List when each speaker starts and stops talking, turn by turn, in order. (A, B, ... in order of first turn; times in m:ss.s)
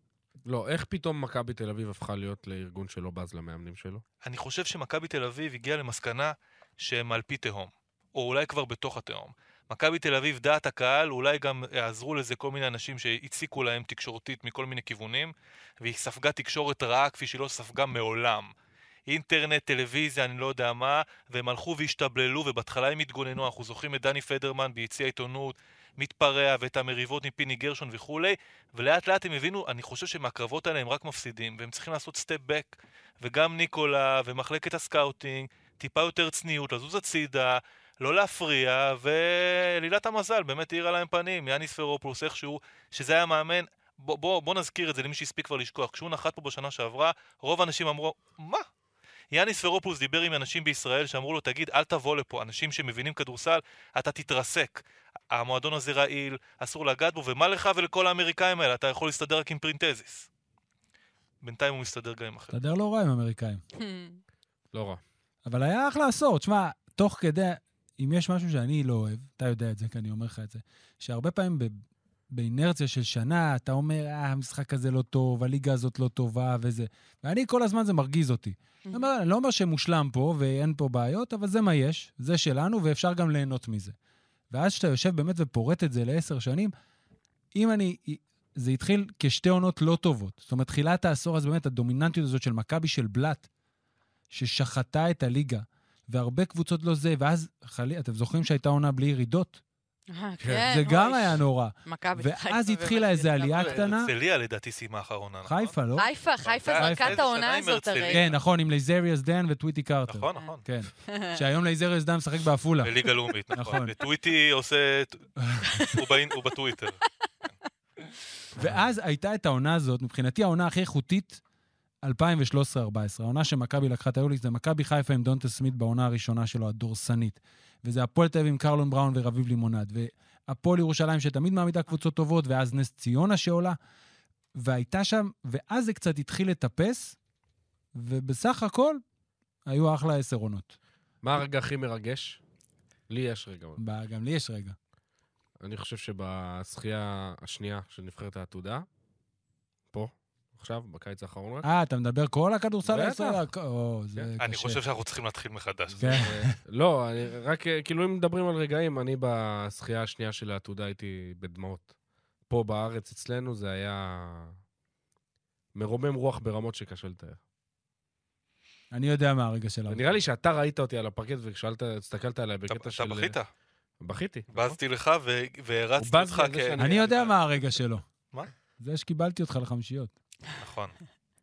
0:00.4-0:04.0 A
0:04.2-0:18.5 B
0:19.1-0:48.6 B
0:49.3-1:00.3 B
1:01.4-1:02.6 B
1:02.5-1:03.6 C
1:03.8-1:04.2 D
1:04.7-1:05.0 A
1:05.4-1:11.8 C
1:12.3-1:24.0 C
1:24.5-1:26.7 C
1:27.5-1:33.5 C
1:34.3-1:39.6 C
1:40.1-1:43.9 D
1:40.4-1:40.7 A
1:40.6-1:44.1 C
1:43.6-1:45.7 B
1:45.4-1:46.1 C
1:46.0-1:48.2 D
1:46.4-1:48.4 B
1:46.7-1:47.2 C
1:48.1-1:52.9 C
1:50.1-1:50.6 B
1:51.1-1:51.4 D
1:52.8-1:57.0 B
1:53.5-1:53.9 C
1:55.4-1:55.9 C
1:55.8-1:56.0 D
1:58.6-2:01.4 C
2:02.0-2:13.8 C
2:14.6-2:17.2 C
2:18.0-2:19.0 C
2:19.6-2:20.8 C
2:21.2-2:22.4 A
2:23.1-2:23.8 A
2:23.8-2:24.8 C
2:25.6-2:28.8 A
2:29.9-2:31.6 A
2:31.6-2:34.8 C
2:32.8-2:33.4 A
2:34.4-2:36.2 B
2:35.9-2:41.9 A
2:36.0-2:36.6 C
2:42.5-2:44.5 A
2:45.7-2:47.4 A
2:48.9-2:50.2 C
2:49.9-2:53.4 A
2:52.7-2:53.5 B
2:54.0-2:54.8 A
2:54.5-2:57.3 B
2:56.0-2:57.3 A
2:56.8-2:58.0 C
2:58.8-3:00.1 C
3:00.6-3:01.0 B